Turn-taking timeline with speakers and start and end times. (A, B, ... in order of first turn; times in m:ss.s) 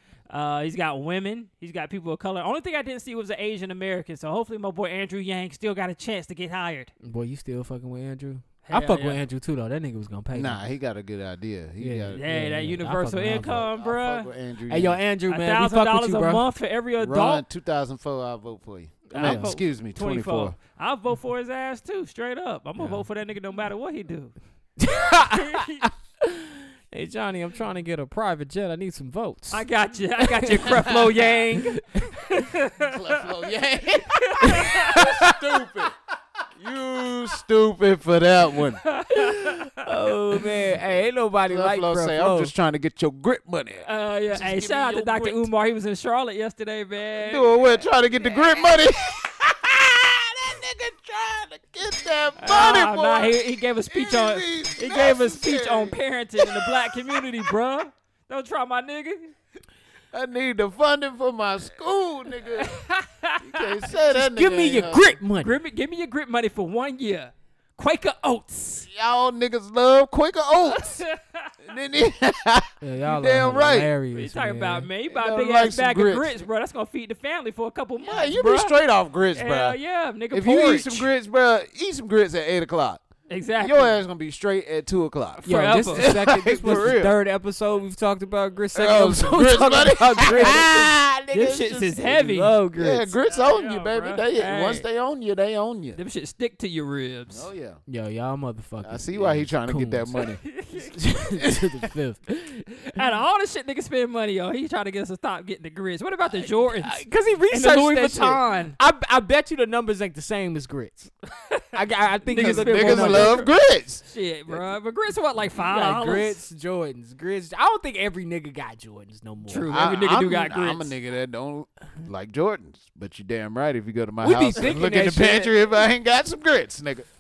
0:00.3-0:06.9 A
0:07.0-0:10.6 B
0:08.7-0:09.2 A
0:10.3-0:12.2 C
0:11.8-0:13.6 B
0:12.1-0:14.3 A
0:13.4-0:15.0 C
0:14.7-0:16.4 B
0:15.3-0:17.4 A
0:17.0-0:20.6 C
0:19.1-0:19.6 B
0:19.1-0:24.4 A
0:24.8-0:29.6 B
0:25.3-0:25.9 A
0:29.5-0:33.2 A
0:30.2-0:32.3 B
0:32.8-0:36.0 C
0:34.2-0:35.0 A
0:34.5-0:35.3 B
0:36.6-0:38.8 C
0:38.8-0:39.8 A
0:39.4-0:42.5 B
0:41.5-0:45.4 C
0:43.8-0:48.8 A
0:47.2-0:57.3 C
0:52.4-0:59.3 A
1:00.1-1:02.7 C
1:02.6-1:03.7 A
1:03.4-1:05.2 C
1:04.1-1:05.5 B
1:05.4-1:08.9 A
1:08.8-1:11.0 C
1:10.7-1:11.5 A
1:11.6-1:13.9 C
1:12.8-1:14.9 B
1:14.1-1:18.8 A
1:15.1-1:16.4 C
1:18.0-1:19.8 C
1:19.3-1:21.1 A
1:20.3-1:23.0 C
1:23.3-1:24.0 A
1:23.6-1:27.1 C
1:25.4-1:26.1 A
1:25.5-1:33.1 B
1:28.7-1:32.0 C
1:31.3-1:32.6 A
1:32.8-1:36.0 C
1:33.2-1:34.8 A
1:36.0-1:37.5 A
1:37.3-1:37.8 C
1:37.9-1:40.2 B
1:38.8-1:40.4 C
1:40.4-1:41.0 A
1:40.9-1:43.0 B
1:42.9-1:48.8 A
1:46.7-1:51.1 B
1:51.7-1:53.4 B
1:52.3-1:53.5 A
1:52.4-1:54.0 C
1:54.0-1:56.4 A
1:55.6-1:59.7 B
1:59.5-2:00.9 A
1:59.7-2:07.1 C
2:04.2-2:05.8 B